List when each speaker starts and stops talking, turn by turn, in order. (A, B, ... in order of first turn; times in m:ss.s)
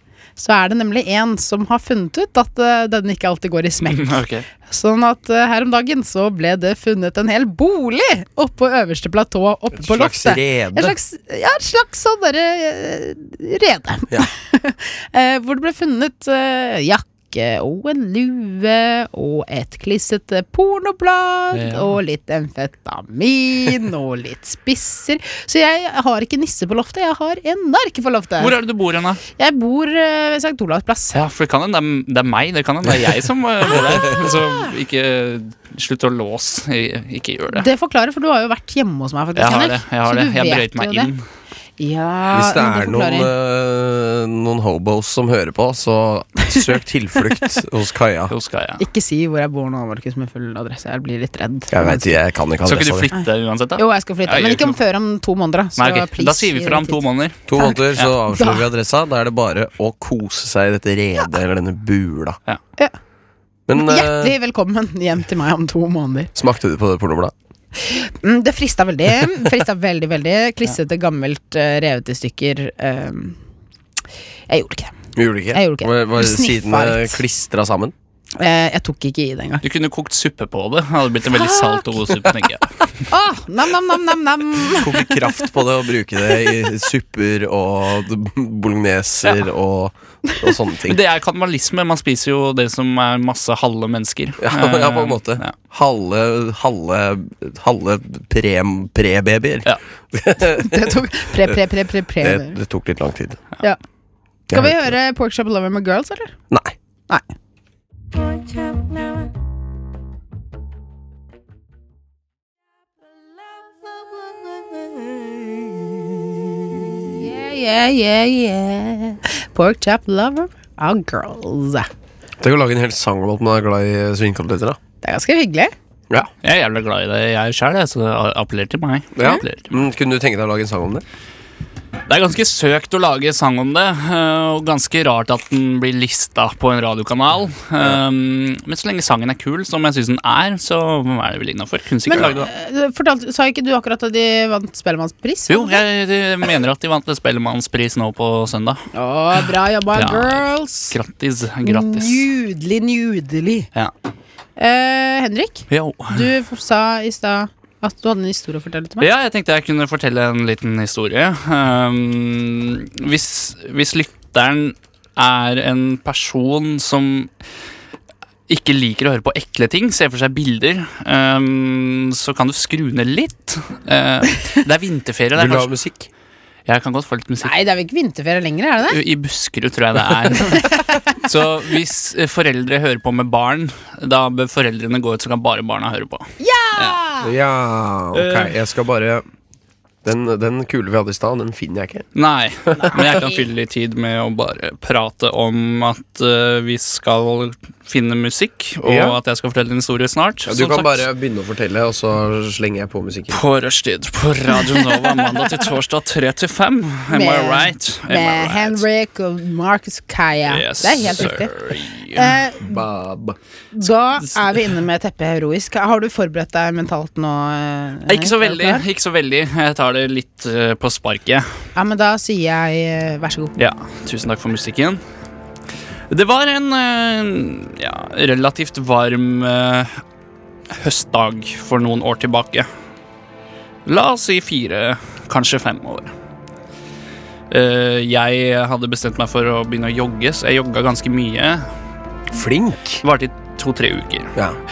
0:00.4-0:28.6 A
0:03.9-0:04.4 B
0:09.7-0:11.0 C
0:21.5-0:21.9 B
0:28.4-0:29.2 B
0:29.4-0:31.2 A
0:31.1-0:37.7 B
0:37.5-0:41.1 A
0:39.4-0:41.2 B
0:41.8-0:43.3 A
0:42.3-0:48.3 C
0:48.3-0:48.8 B
0:48.8-0:52.1 A
0:51.7-0:53.1 C
0:52.6-0:54.8 B
0:53.1-0:57.0 A
0:55.8-0:57.4 B
0:57.5-1:02.4 C
0:57.6-0:58.6 A
1:03.7-1:04.3 C
1:03.7-1:06.3 A
1:06.3-1:07.3 C
1:07.8-1:13.4 A
1:14.5-1:15.0 A
1:15.1-1:17.9 C
1:15.5-1:17.2 A
1:18.4-1:19.6 A
1:19.6-1:22.8 B
1:21.3-1:21.8 A
1:23.1-1:25.0 A
1:24.7-1:31.0 C
1:30.8-1:35.5 B
1:34.4-1:41.5 C
1:40.4-1:42.6 A
1:42.2-1:43.4 C
1:44.5-1:44.9 C
1:44.5-1:46.3 A
1:56.9-2:01.9 A
2:02.4-2:04.8 C
2:05.0-2:05.7 A
2:06.4-2:09.7 B
2:09.2-2:11.0 C
2:12.1-2:22.5 B
2:22.1-2:25.8 A
2:22.1-2:22.4 C
2:25.5-2:28.8 B
2:28.9-2:31.0 A
2:29.4-2:32.2 B
2:31.6-2:33.7 A
2:34.6-2:39.1 A
2:35.7-2:36.3 B
2:39.0-2:47.3 B
2:48.5-2:55.7 B
2:55.3-2:56.1 C
2:56.6-2:57.5 B
2:57.4-2:59.0 A
2:58.9-3:07.0 B
3:00.5-3:01.0 A
3:06.4-3:07.3 A
3:07.2-3:09.2 C
3:08.1-3:08.6 B
3:10.0-3:12.1 C
3:12.1-3:21.0 B
3:12.8-3:13.4 A
3:18.8-3:19.2 C
3:20.4-3:23.4 C
3:23.3-3:28.8 B
3:24.7-3:25.4 A
3:27.1-3:31.5 A
3:30.5-3:32.4 B
3:32.1-3:32.8 A
3:32.6-3:33.4 C
3:33.7-3:38.8 A
3:38.1-3:41.4 B
3:41.7-3:43.5 A
3:43.6-3:45.0 B
3:46.1-3:50.0 B
3:50.7-3:52.7 B
3:53.8-3:56.1 B
3:57.5-4:01.6 B
4:02.3-4:03.0 C
4:03.0-4:04.3 B